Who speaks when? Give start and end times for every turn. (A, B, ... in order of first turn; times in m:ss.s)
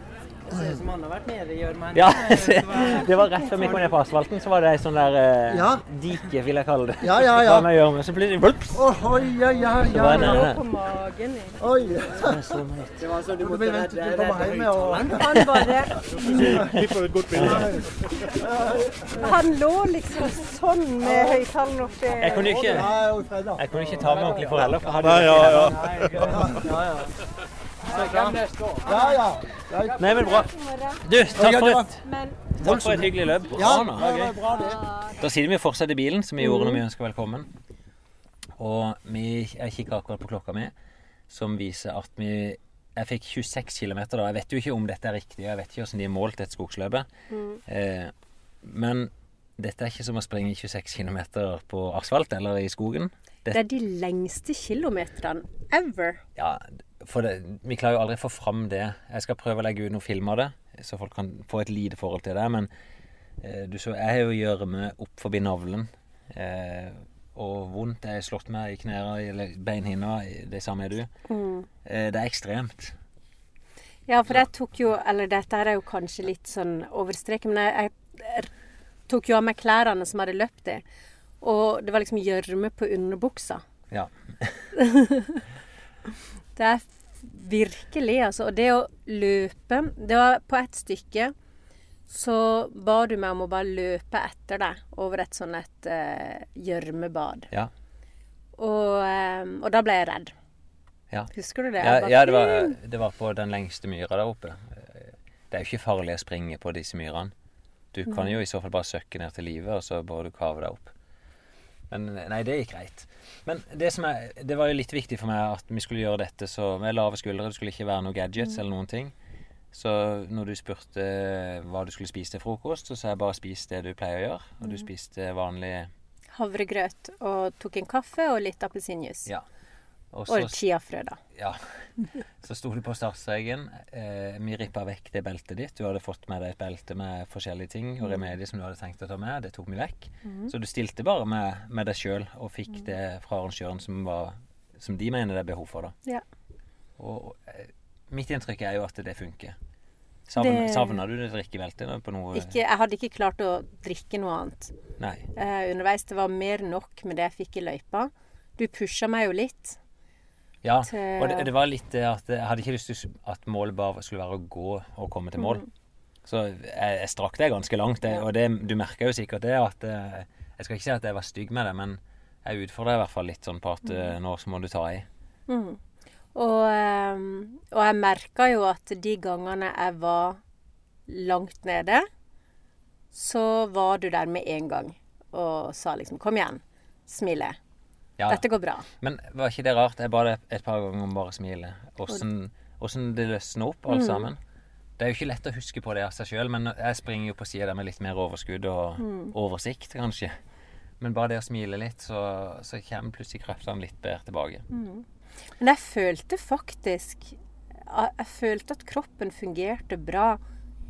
0:00.5-0:03.1 A
0:01.9-0:08.9 B
0:05.5-0:05.8 C
0:07.0-0:07.7 C
0:08.7-0:10.4 C
0:09.8-0:10.6 B
0:09.8-0:11.6 D
0:11.6-0:12.4 C
0:12.2-0:13.0 B
0:13.0-0:15.3 A
0:13.4-0:16.0 C
0:15.0-0:16.0 D
0:16.2-0:17.9 E
0:17.4-0:17.7 B
0:18.4-0:19.0 C
0:19.1-0:22.8 D
0:21.0-0:21.4 C
0:22.2-0:23.0 B
0:22.4-0:24.0 C
0:23.5-0:26.0 B
0:25.0-0:26.4 E
0:25.8-0:27.0 A
0:26.3-0:26.9 C
0:27.9-0:28.8 A
0:27.9-0:30.0 C
0:28.8-0:29.4 D
0:29.9-0:31.0 D
0:30.0-0:30.5 B
0:31.0-0:32.0 B
0:31.3-0:31.9 C
0:32.0-0:32.6 D
0:32.6-0:34.4 B
0:32.6-0:34.8 C
0:33.2-0:33.9 D
0:34.4-0:35.2 D
0:35.1-0:37.5 B
0:36.4-0:36.8 D
0:38.6-0:40.7 B
0:41.3-0:47.1 B
0:47.3-0:47.6 D
0:47.6-0:53.6 B
0:53.5-0:56.2 D
0:56.4-1:02.7 B
1:03.4-1:11.1 B
1:11.3-1:11.7 D
1:11.8-1:13.0 B
1:14.1-1:18.5 D
1:19.1-1:20.8 D
1:21.4-1:23.6 D
1:23.9-1:24.7 B
1:24.8-1:25.4 D
1:26.6-1:31.3 D
1:32.1-1:37.5 D
1:38.6-1:40.3 D
1:41.1-1:47.3 B
1:41.3-1:42.8 D
1:47.9-1:50.9 B
1:48.1-1:48.4 D
1:51.9-1:59.1 B
1:59.7-2:05.9 B
2:06.3-2:09.3 D
2:10.1-2:10.6 B
2:10.3-2:11.2 D
2:11.3-2:25.9 B
2:20.2-2:20.5 D
2:27.0-2:29.6 B
2:30.3-2:32.6 B
2:30.4-2:31.0 D
2:32.3-2:34.7 D
2:35.0-2:35.3 B
2:35.4-2:39.8 D
2:40.6-2:45.6 B
2:40.9-2:41.5 D
2:45.4-2:45.6 D
2:46.2-2:55.0 B
2:55.5-2:55.8 D
2:56.3-3:00.4 D
3:01.1-3:02.0 D
3:03.1-3:07.6 D
3:08.2-3:08.4 B
3:08.3-3:08.8 D
3:09.0-3:14.4 B
3:13.9-3:14.2 D
3:15.0-3:20.4 B
3:19.0-3:19.3 D
3:21.0-3:24.6 B
3:24.7-3:25.0 D
3:25.6-3:30.4 D